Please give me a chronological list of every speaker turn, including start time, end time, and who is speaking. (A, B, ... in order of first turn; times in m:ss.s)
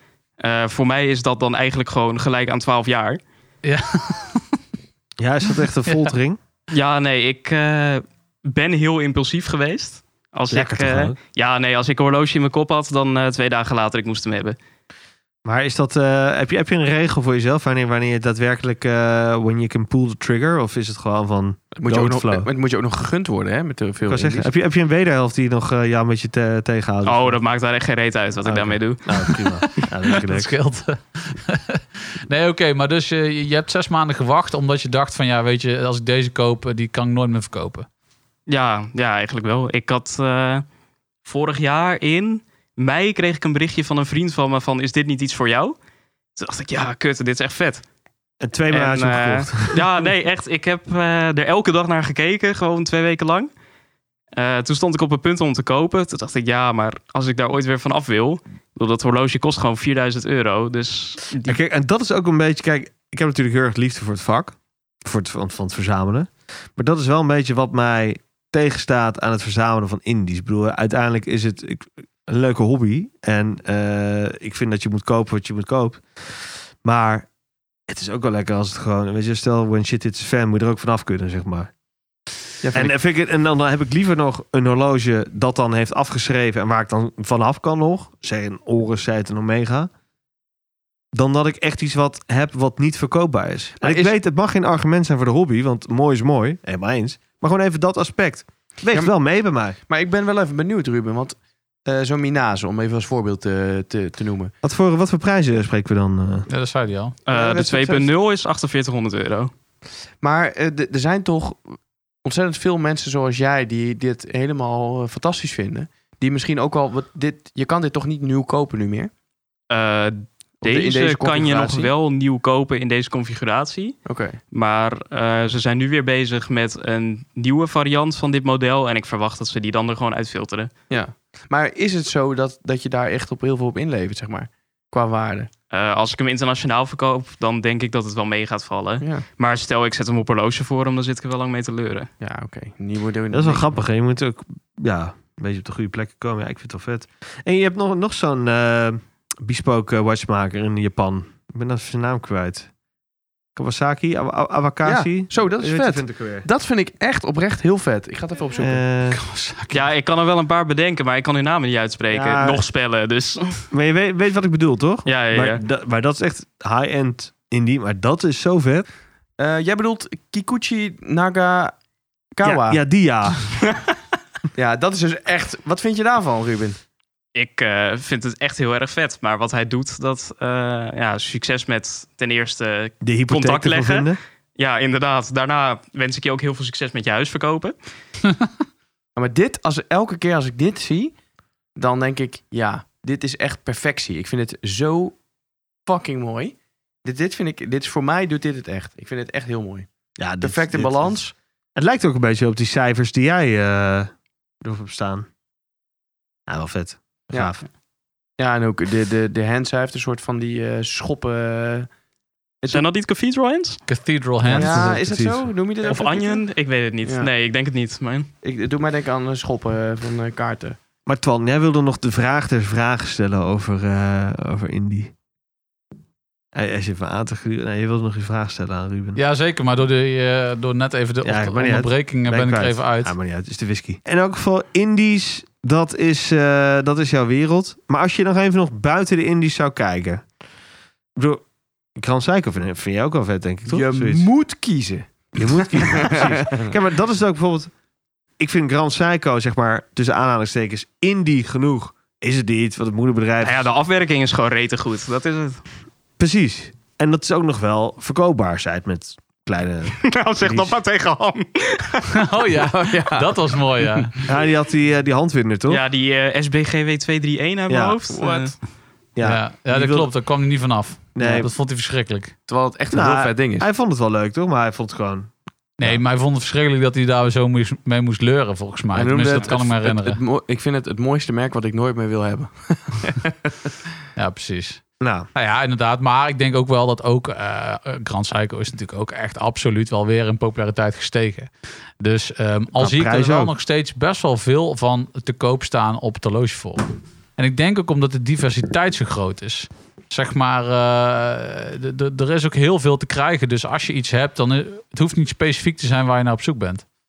0:00.4-0:03.2 A
0:03.6-0:04.4 B
0:05.2-0:06.4 C
0:05.9-0:06.1 B
0:06.7-0:14.6 A
0:10.5-0:11.2 C
0:15.4-0:22.5 C
0:21.7-0:24.5 D
0:24.1-0:27.4 C
0:27.0-0:29.3 A
0:28.4-0:30.5 C
0:29.7-0:37.8 B
0:38.5-0:40.6 A
0:41.2-0:45.8 A
0:46.4-0:47.8 A
0:48.4-0:49.8 C
0:48.7-0:53.5 A
0:54.3-1:01.6 A
1:01.4-1:17.3 C
1:17.9-1:21.7 C
1:22.6-1:22.9 D
1:22.7-1:29.9 C
1:31.1-1:39.8 C
1:33.8-1:34.1 D
1:39.9-1:44.5 D
1:44.6-1:46.5 C
1:46.5-1:47.2 B
1:47.2-1:49.5 A
1:47.3-1:48.1 D
1:50.2-1:59.1 D
1:59.7-2:10.7 A
2:00.6-2:01.9 D
2:04.0-2:04.4 D
2:10.9-2:15.5 D
2:15.7-2:22.1 A
2:22.2-2:23.7 D
2:23.3-2:32.7 C
2:33.5-2:36.5 C
2:34.8-2:38.8 D
2:38.6-2:39.2 C
2:39.1-2:39.8 B
2:39.7-2:43.6 A
2:42.1-2:42.6 C
2:43.7-2:48.8 C
2:45.0-2:45.6 A
2:49.4-2:51.8 D
2:52.3-2:52.8 D
2:52.4-2:53.5 C
2:54.5-2:56.8 D
2:57.3-3:07.7 A
3:03.0-3:04.2 C
3:09.2-3:11.1 D
3:11.7-3:15.2 D
3:15.8-3:19.9 D
3:20.2-3:24.1 C
3:20.4-3:21.3 D
3:24.6-3:25.3 C
3:26.5-3:27.6 C
3:28.4-3:31.9 D
3:32.7-3:33.8 A
3:33.9-3:35.0 B
3:34.4-3:35.5 C
3:34.4-3:36.4 D
3:35.8-3:38.3 A
3:38.4-3:40.8 D
3:41.0-3:45.1 C
3:46.5-3:49.2 C
3:49.1-3:53.1 B
3:51.2-4:00.2 C
4:01.2-4:01.4 C
4:02.0-4:04.3 C
4:03.7-4:06.7 D
4:05.4-4:07.7 C
4:08.4-4:13.7 C
4:13.4-4:15.6 A
4:16.2-4:20.7 C
4:20.0-4:22.2 A
4:22.1-4:24.2 B
4:22.5-4:24.1 D
4:24.2-4:25.8 C
4:25.7-4:28.5 A
4:27.7-4:28.0 C
4:28.1-4:28.5 D
4:29.2-4:30.1 C
4:29.2-4:32.4 B
4:31.1-4:31.5 C
4:32.5-4:33.7 D
4:32.9-4:36.0 C
4:35.8-4:40.2 B
4:38.9-4:43.7 D
4:44.2-4:44.8 B
4:45.0-4:45.3 C
4:45.3-4:56.8 B
4:52.8-4:53.5 C
4:57.4-5:06.8 B